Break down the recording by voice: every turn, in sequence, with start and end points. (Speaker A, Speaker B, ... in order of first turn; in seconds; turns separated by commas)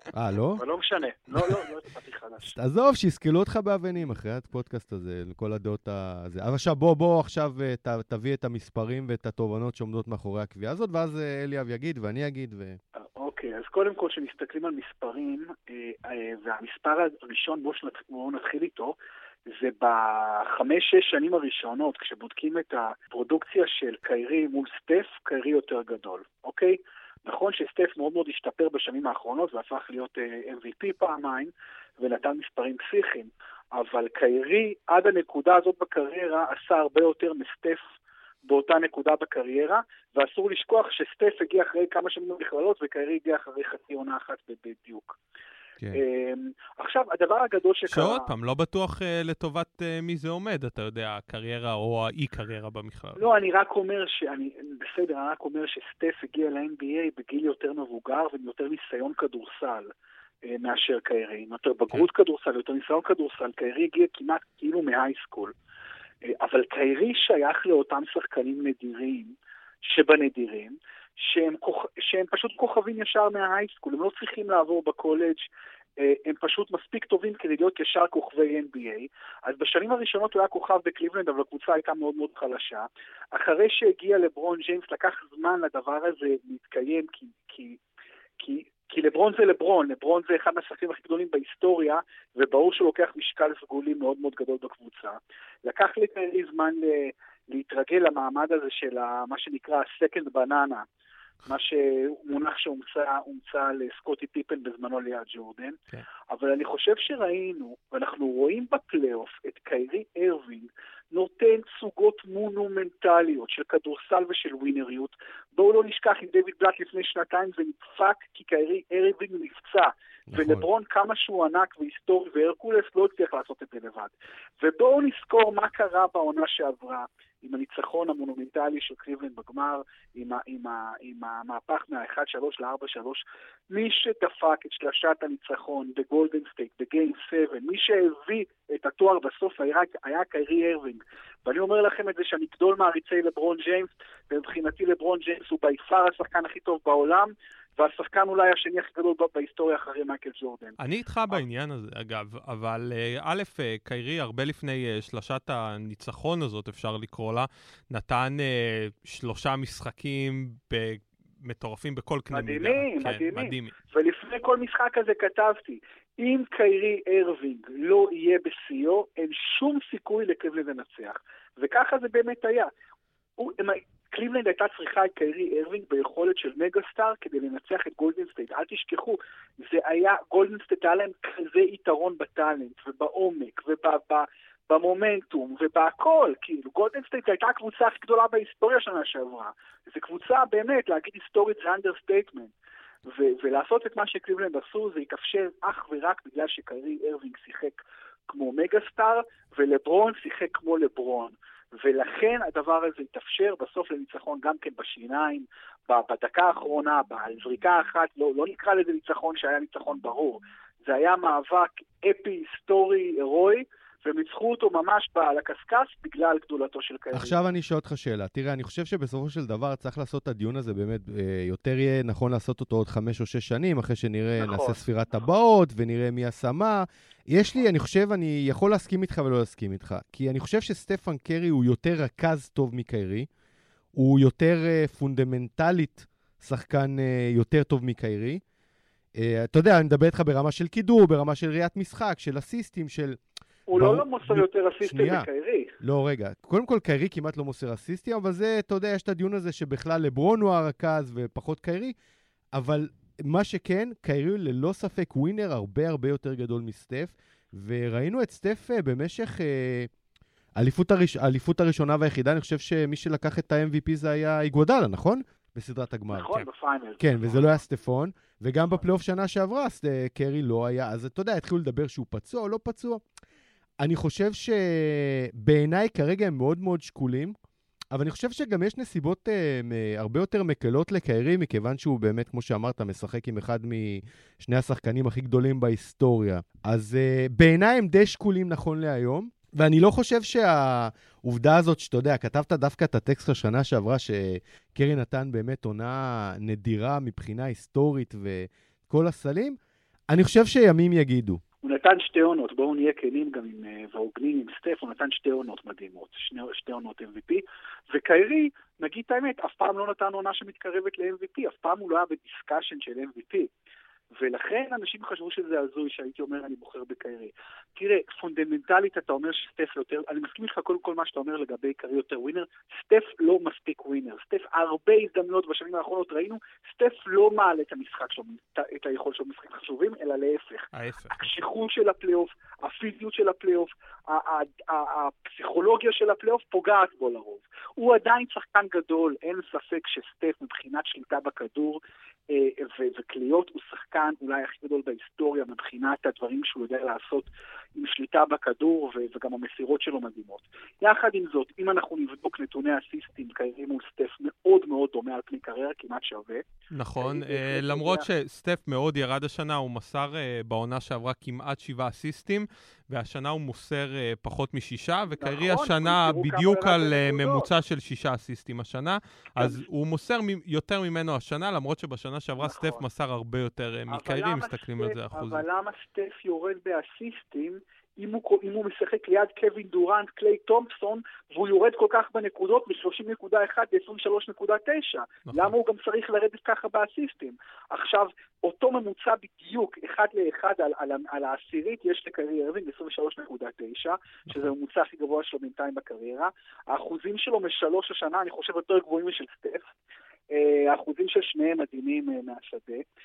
Speaker A: 0.1-0.6, Speaker B: 0.6-2.5, Speaker A: 2.4-12.8, Speaker B: 13.2-18.9, Speaker B: 19.5-37.8, Speaker B: 38.5-45.2, Speaker B: 45.9-48.3, Speaker C: 47.9-53.2, Speaker B: 53.2-59.9, Speaker B: 60.4-65.5, Speaker B: 66.2-75.5, Speaker B: 76.0-87.8, Speaker B: 88.4-100.8, Speaker B: 101.5-105.8, Speaker B: 106.3-150.8, Speaker A: 120.3-120.6, Speaker C: 150.8-163.7, Speaker B: 162.3-172.7, Speaker B: 173.4-192.5, Speaker B: 193.1-217.4, Speaker A: 217.1-233.3, Speaker B: 224.4-224.8, Speaker A: 233.9-238.4, Speaker A: 239.2-243.2, Speaker B: 243.7-245.7, Speaker A: 243.7-245.3, Speaker A: 245.8-251.9, Speaker A: 252.5-259.9, Speaker A: 260.6-266.3, Speaker B: 266.1-267.6, Speaker A: 267.0-273.0, Speaker A: 273.8-277.3, Speaker A: 277.9-299.6, Speaker A: 300.1-301.4, Speaker B: 301.6-313.5, Speaker B: 314.2-356.4, Speaker C: 330.7-331.4, Speaker C: 356.7-375.4, Speaker B: 357.0-358.0, Speaker B: 365.1-367.5, Speaker B: 369.4-369.6, Speaker B: 372.4-372.8, Speaker B: 373.9-399.7, Speaker C: 385.2-385.5, Speaker B: 400.3-402.8